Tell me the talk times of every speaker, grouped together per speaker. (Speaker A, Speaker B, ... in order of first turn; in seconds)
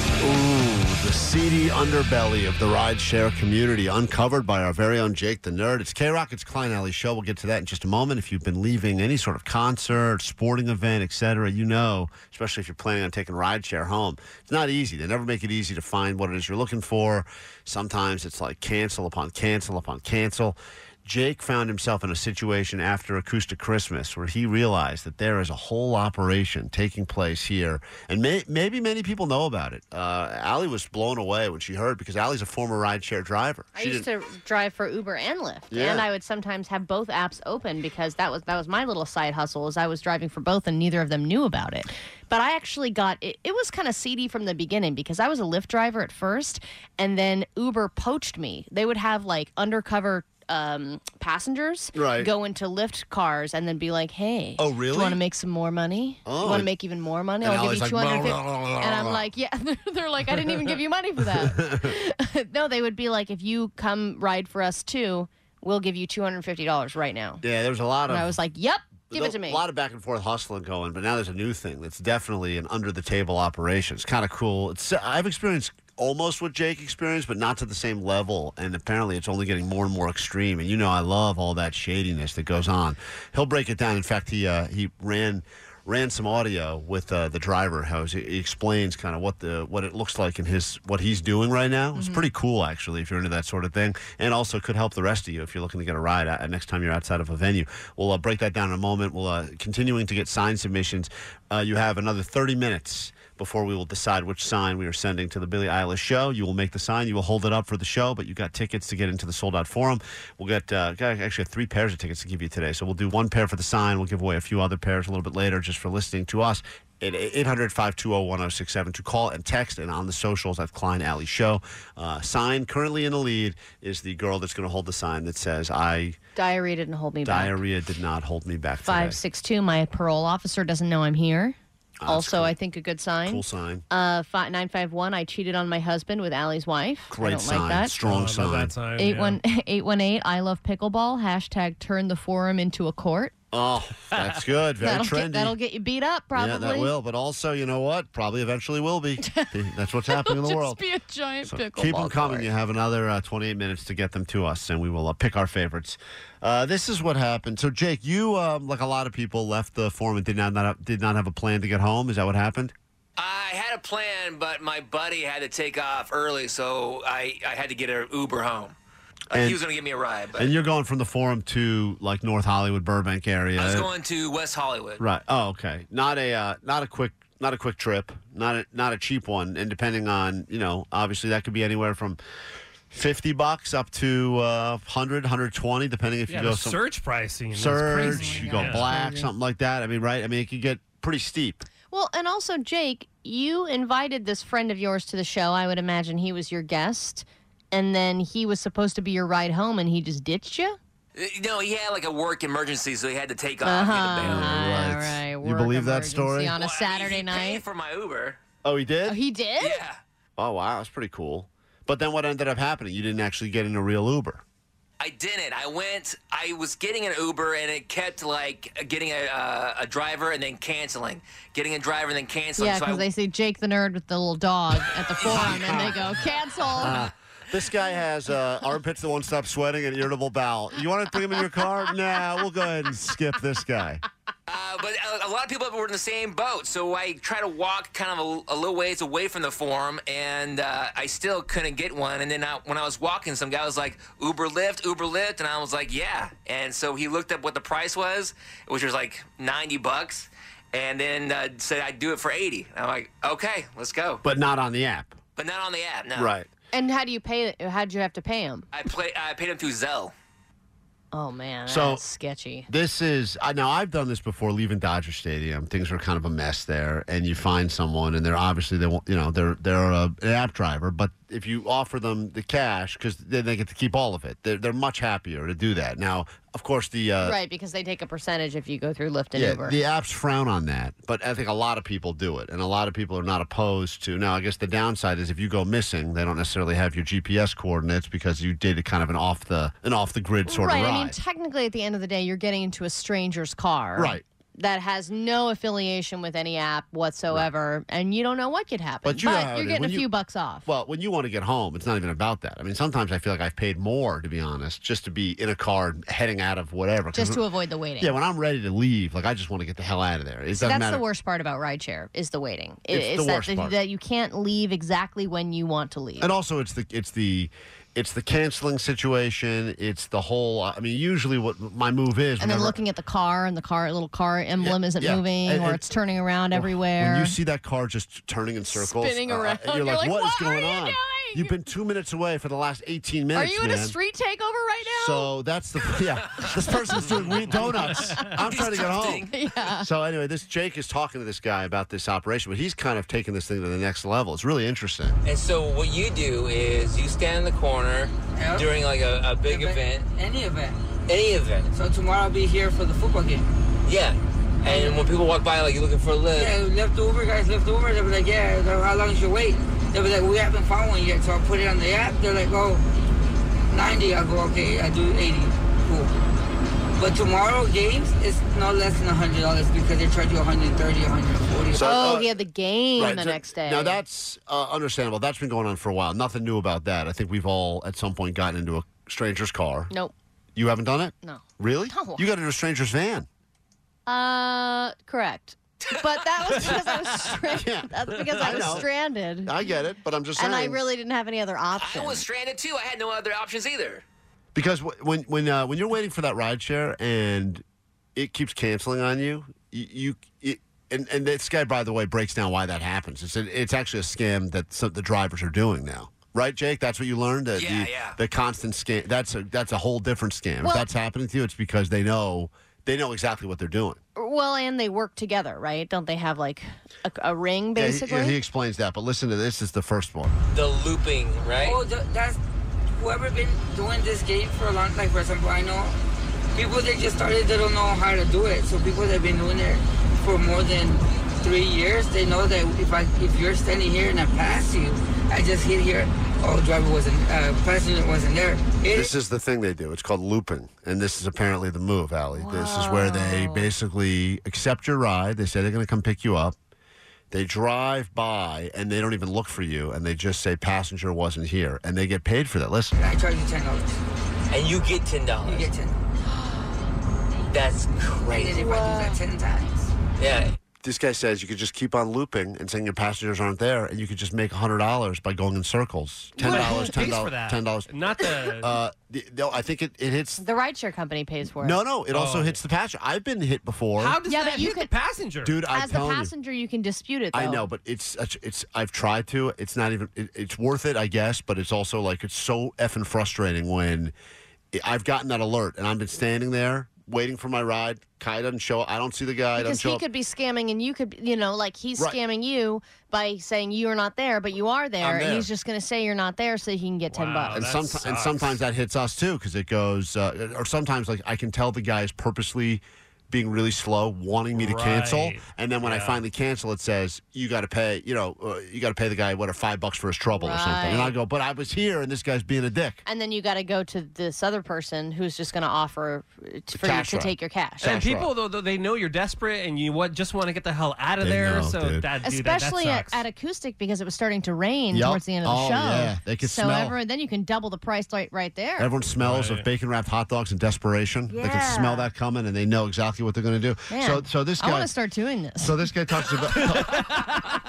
Speaker A: 0.2-34.1, 35.7-36.1, 51.9-52.3, 54.6-55.2, 56.2-56.7, 57.4-59.2, 61.4-61.9, 67.4-68.3, 69.1-126.2, 127.2-129.2, 132.0-132.5, 133.2-133.8, 137.1-138.7, 143.5-145.6, 146.3-150.8, 151.4-162.7, 169.3-169.6, 170.3-173.9, 175.0-182.2, 182.9-186.8, 187.5-191.7, 204.2-206.5, 208.6-209.2, 210.4-214.4, 225.2-226.1, 226.8-234.0, 254.2-255.1, 256.1-256.5, 261.7-262.0, 262.7-277.4, 279.3-291.2, 293.9-294.2, 299.0-300.1, 300.6-307.4, 308.0-311.0, 312.9-313.8, 316.2-322.8, 324.6-325.8, 326.5-333.9, 334.8-345.2, 371.7-372.3, 373.0-379.9, 380.5-383.3, 387.4-388.9, 389.4-390.8, 394.5-397.6, 398.1-414.0, 417.8-420.3, 438.9-446.6, 447.3-452.9, 460.8-470.4, 471.6-474.2, 475.4-476.3, 477.3-484.1, 484.7-490.0, 495.0-495.5, 497.5-513.0, 516.7-518.3, 521.2-522.1, 524.9-527.0, 528.8-534.9, 535.6-537.4
Speaker B: 33.7-67.4, 68.1-69.6, 91.9-92.3, 126.3-127.6, 128.8-131.6, 132.1-138.0, 139.0-143.3, 144.8-146.9, 149.2-149.5, 150.1-152.5, 188.0-189.3, 191.9-200.8, 203.6-207.6, 209.1-209.8, 222.6-227.0, 256.7-258.7, 261.1-262.7, 277.2-279.8, 290.4-300.7, 307.1-308.1, 310.5-316.3, 322.4-327.4, 328.6-331.6, 333.3-335.3, 336.8-337.1, 339.2-339.9, 371.8-374.0, 381.2-382.3, 384.1-389.7, 390.4-392.2, 410.6-410.9, 414.1-418.4, 442.3-443.7, 456.3-456.8, 458.7-459.2, 466.6-467.0, 470.3-471.8, 474.3-474.9, 475.7-477.7, 489.5-497.6, 510.3-511.2, 513.0-518.0, 522.2-528.9, 531.3-532.1, 533.9-535.9
Speaker C: 138.0-139.4, 186.3-188.9, 466.4-468.8, 472.1-472.6, 474.0-475.6, 497.1-498.6, 504.5-506.2, 517.8-523.2, 529.2-529.7, 536.5-537.6
Speaker D: 163.2-168.8, 169.3-170.5, 173.6-175.0, 201.2-204.6, 206.5-208.4, 209.6-210.0, 215.0-223.0, 225.2-226.3, 234.5-254.2, 255.3-256.3, 258.7-260.1, 338.4-339.3, 345.2-350.1, 351.1-351.7, 353.8-356.6, 391.7-394.0, 407.6-408.2, 420.5-421.8, 454.5-455.7, 457.5-458.9, 460.2-460.6
Speaker E: 348.3-348.8, 349.4-350.8, 351.7-353.5, 354.6-355.2, 356.3-362.8, 363.7-366.1, 367.0-372.0, 421.6-422.4, 422.9-426.0, 426.5-439.1, 453.0-454.0, 455.4-456.0, 458.2-459.9